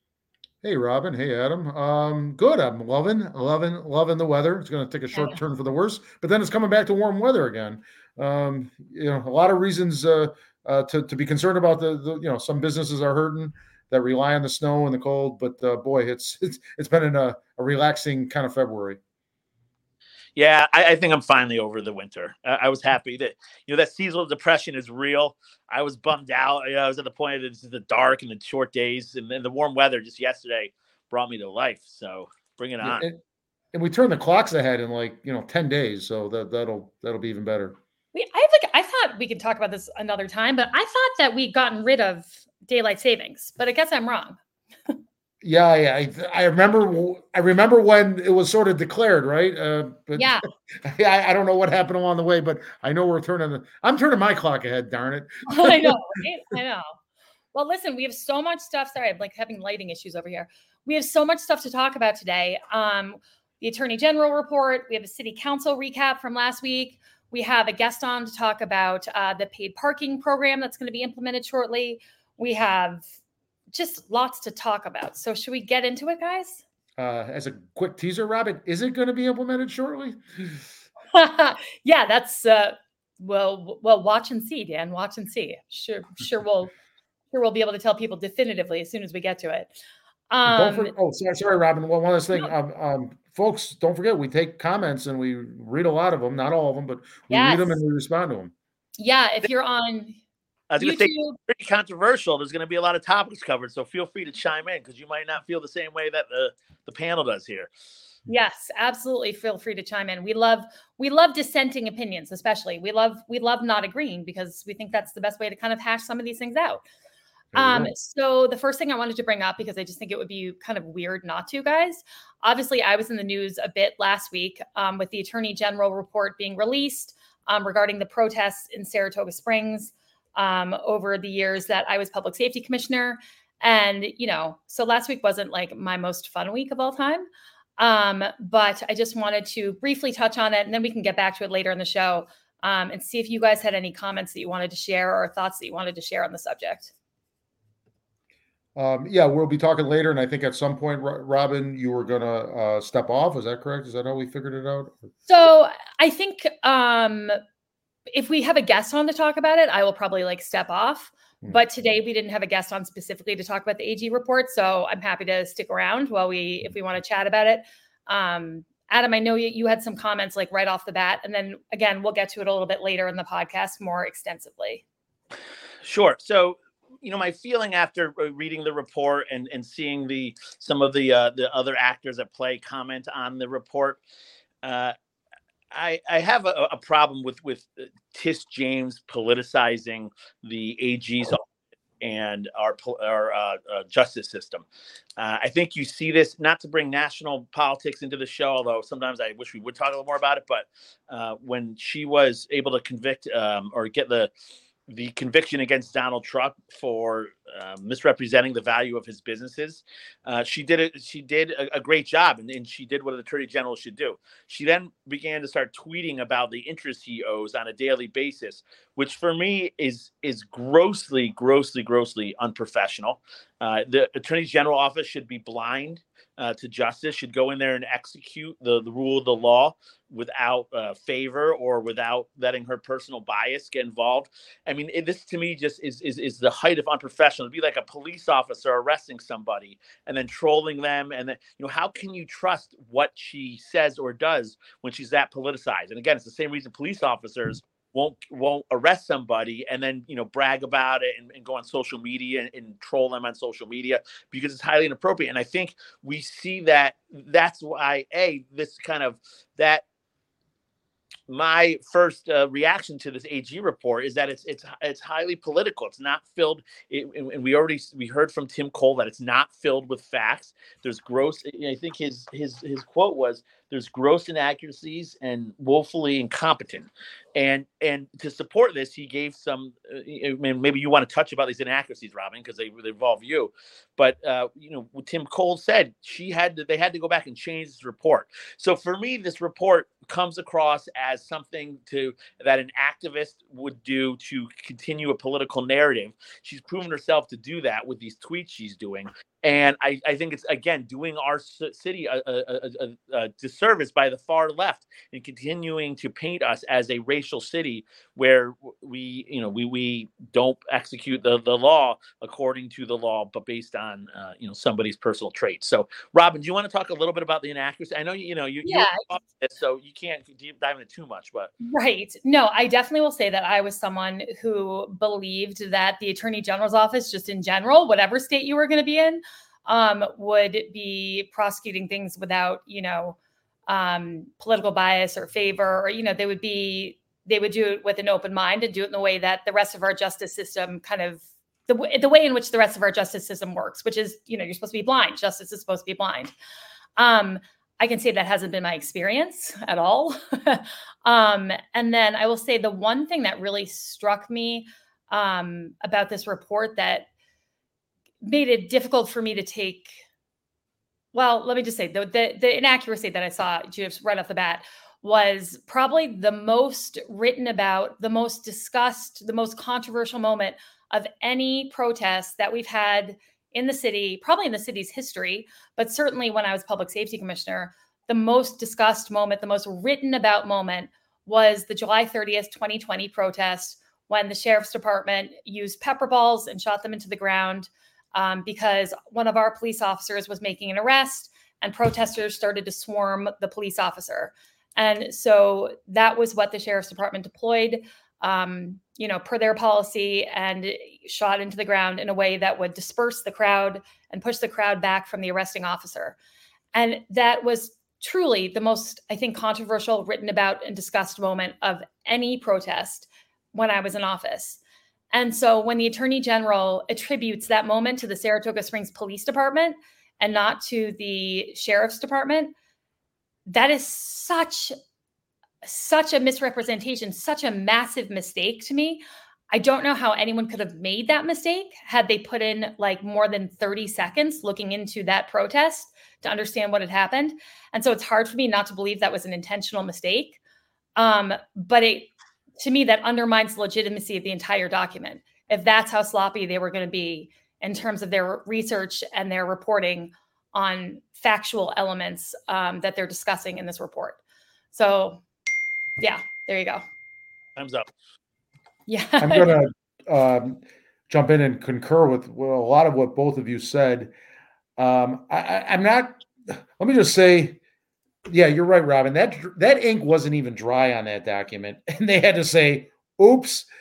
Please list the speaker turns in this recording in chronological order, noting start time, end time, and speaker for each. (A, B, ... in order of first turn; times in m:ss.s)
0:00.6-0:19.0 A
0:20.4-0:33.0 B
0:32.8-0:33.2 A
0:33.7-0:37.8 A
0:38.1-0:44.4 C
0:45.4-0:56.2 A
0:50.2-0:50.4 C
0:55.5-0:57.0 C
0:57.5-1:13.0 C
1:13.7-1:16.6 C
1:17.0-1:20.7 A
1:21.1-1:26.7 C
1:27.3-1:29.7 C
1:30.3-1:30.9 C
1:30.4-1:38.5 A
1:37.3-1:37.8 C
1:39.0-1:40.2 C
1:40.7-1:47.7 B
1:40.8-1:41.4 C
1:48.3-1:56.8 C
1:57.5-1:57.9 A
1:57.6-2:17.3 C
2:17.8-2:26.9 C
2:28.8-2:35.1 A
2:35.3-2:37.4 C
2:38.1-2:54.8 C
2:55.8-3:04.0 B
3:04.6-3:05.0 B
3:05.7-3:11.5 B
3:12.0-3:14.6 B
3:15.2-3:24.3 B
3:24.9-4:19.8 B
4:21.3-5:21.5 B
5:18.6-5:19.0 C
5:21.7-5:46.3 C
5:47.0-5:57.1 C
5:58.2-6:00.0 C
6:01.1-6:46.2 C
6:46.7-6:54.6 C
6:55.1-7:02.5 C
7:03.5-7:04.8 C
7:05.6-7:20.4 C
7:21.0-7:34.2 C
7:34.7-7:35.2 C
7:36.0-7:36.8 C
7:37.6-7:37.9 B
7:38.9-7:39.6 C
7:39.2-7:44.1 A
7:44.8-7:47.6 A
7:48.3-7:53.7 A